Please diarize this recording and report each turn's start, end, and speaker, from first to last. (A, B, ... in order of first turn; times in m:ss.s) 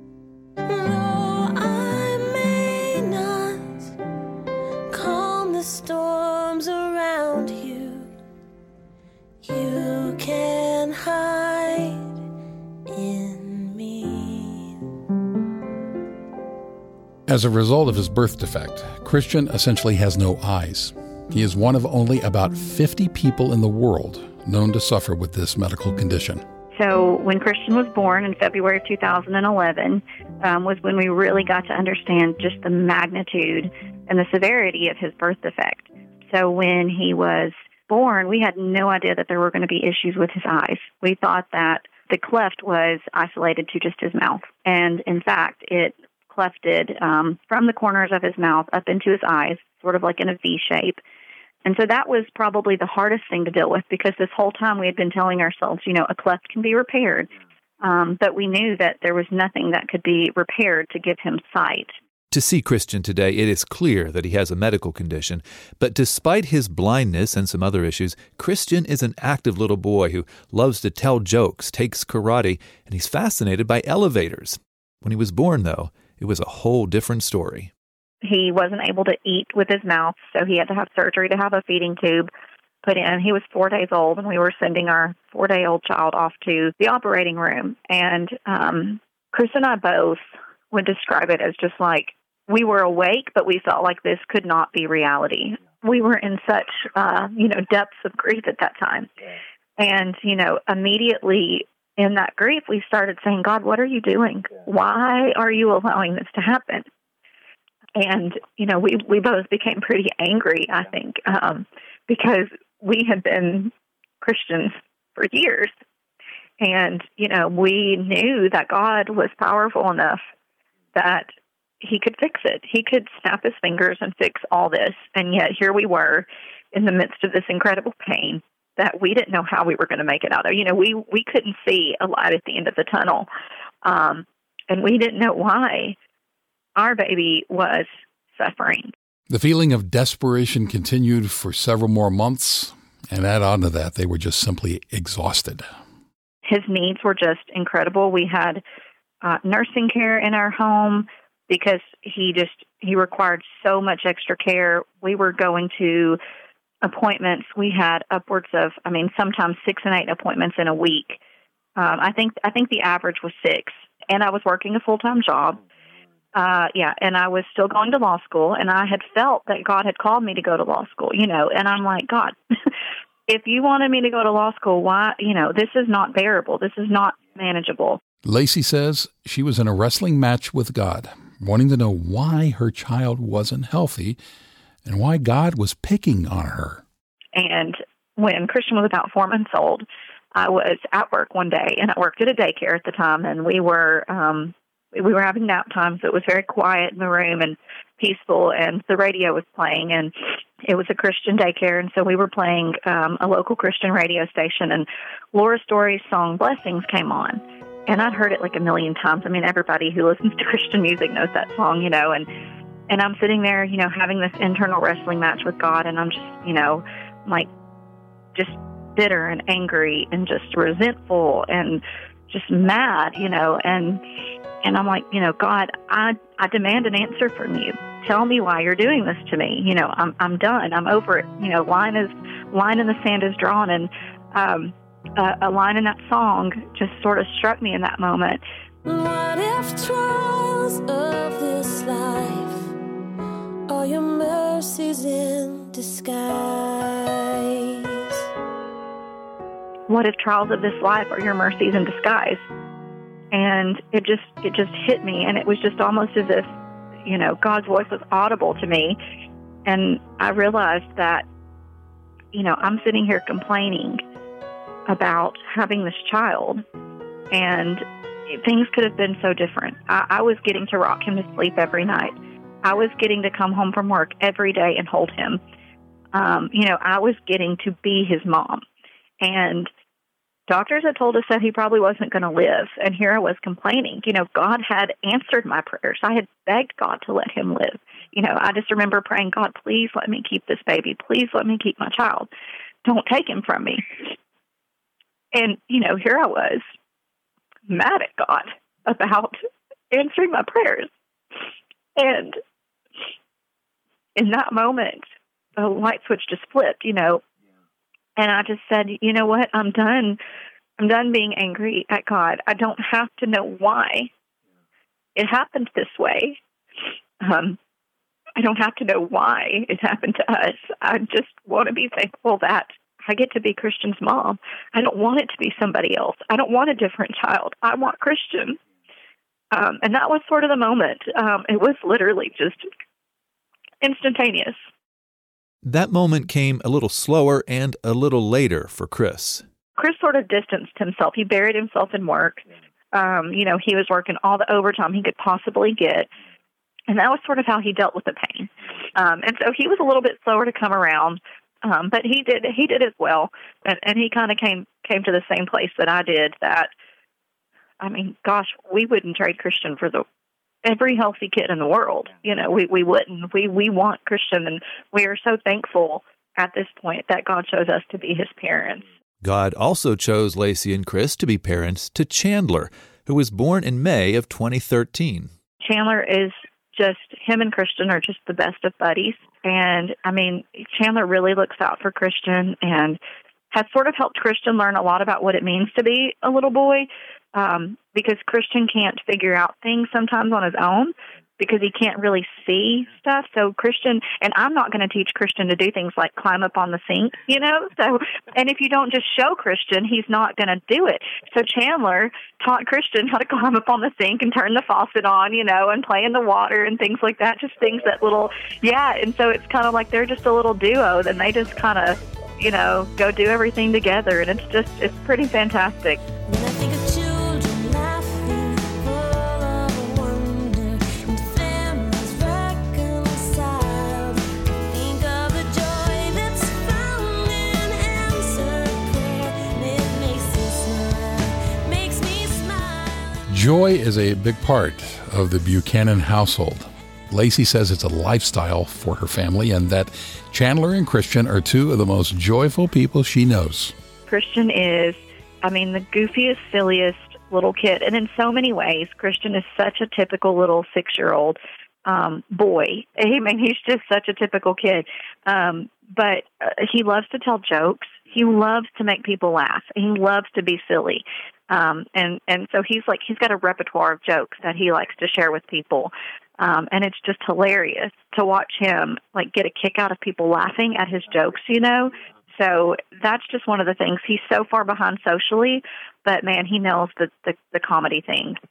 0:00.7-0:03.9 A
0:04.9-0:08.1 A
0:09.4-0:12.2 A
0:12.9-0:14.9 A
0:17.3-0:26.4 B
0:26.8-0:51.0 C
0:51.6-0:57.3 C
0:57.8-1:01.9 C
1:02.3-1:17.7 D
1:18.2-1:22.3 C
1:22.8-1:30.2 C
1:30.7-1:39.1 C
1:39.8-1:46.9 C
1:48.0-1:55.7 C
1:56.6-2:00.2 C
2:00.9-2:01.3 C
2:01.8-2:13.3 C
2:13.8-2:16.0 C
2:16.8-2:18.9 C
2:19.3-2:25.7 B
2:26.5-2:28.6 C
2:29.2-2:36.2 C
2:36.8-2:41.2 C
2:41.8-2:45.6 C
2:46.4-2:52.4 C
2:53.3-2:58.0 C
2:58.2-3:04.2 B
3:04.8-3:06.8 B
3:07.4-3:20.1 C
3:20.6-3:32.3 C
3:32.9-3:37.5 C
3:38.4-3:44.0 C
3:44.6-3:58.4 C
3:58.9-4:02.7 A
4:03.7-4:08.2 A
4:09.9-4:12.4 C
4:13.3-4:16.5 C
4:17.1-4:19.0 C
4:19.7-4:21.2 C
4:22.3-4:24.0 C
4:24.9-4:26.6 C
4:27.3-4:32.1 C
4:32.6-4:35.4 C
4:36.1-4:38.6 C
4:39.2-4:39.7 C
4:40.5-4:52.3 C
4:52.8-4:54.2 C
4:55.3-4:56.6 C
4:57.7-4:59.4 C
4:59.9-5:00.9 C
5:02.0-5:02.4 C
5:04.2-5:05.0 C
5:05.6-5:07.2 C
5:08.2-5:10.2 C
5:10.8-5:14.1 C
5:15.2-5:16.4 C
5:17.2-5:17.6 C
5:18.4-5:28.6 C
5:29.5-5:32.7 C
5:33.8-5:34.6 C
5:35.6-5:39.4 D
5:39.8-5:42.4 C
5:42.9-5:46.1 C
5:46.9-5:56.7 C
5:57.8-6:00.0 C
6:00.6-6:08.8 C
6:09.2-6:15.3 D
6:15.6-6:23.0 C
6:23.5-6:56.0 C
6:56.3-7:13.2 A
7:13.3-7:23.7 B
7:24.1-7:58.4 C